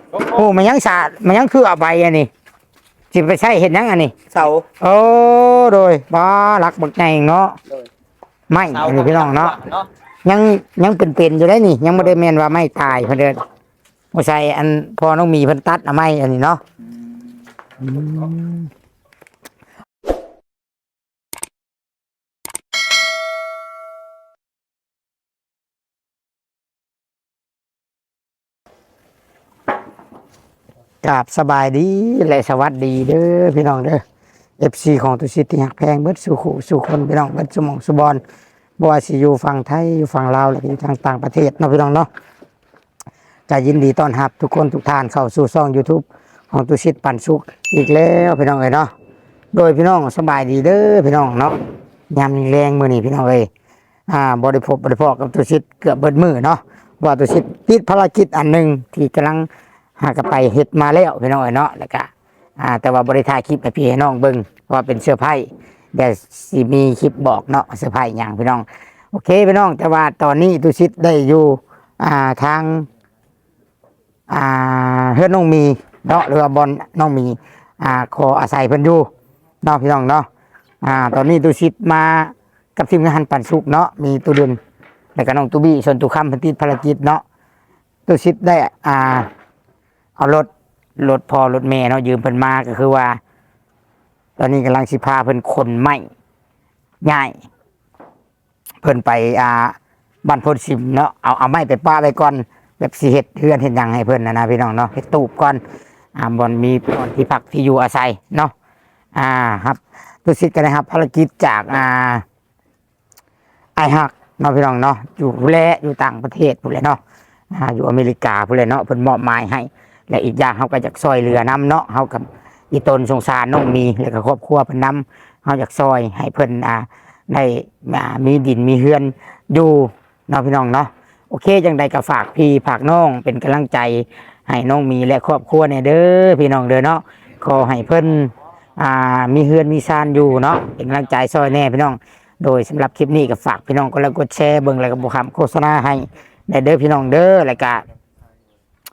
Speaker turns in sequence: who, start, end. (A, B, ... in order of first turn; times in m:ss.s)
0:00.1-0:00.5 A
0:00.3-0:02.3 B
0:03.1-0:04.1 B
0:04.3-0:04.6 A
0:04.8-0:07.6 B
0:08.5-0:09.5 B
0:08.6-0:09.9 A
0:10.2-0:13.4 B
0:14.1-0:16.6 B
0:17.0-0:17.3 A
0:17.8-0:18.7 B
0:31.0-0:34.0 B
0:34.6-0:38.2 B
0:38.8-0:42.1 B
0:43.5-0:48.9 B
0:49.5-0:51.6 B
0:52.1-0:53.5 B
0:54.1-0:59.5 B
1:00.0-1:12.9 B
1:14.3-1:19.1 B
1:19.6-1:20.3 B
1:20.8-1:24.6 B
1:25.1-1:27.2 B
1:28.1-1:29.3 B
1:30.2-1:33.2 B
1:34.4-1:36.0 B
1:37.0-1:37.4 B
1:38.8-1:45.6 B
1:46.2-1:48.5 B
1:49.1-1:52.2 B
1:53.8-1:57.0 B
1:57.5-2:27.8 B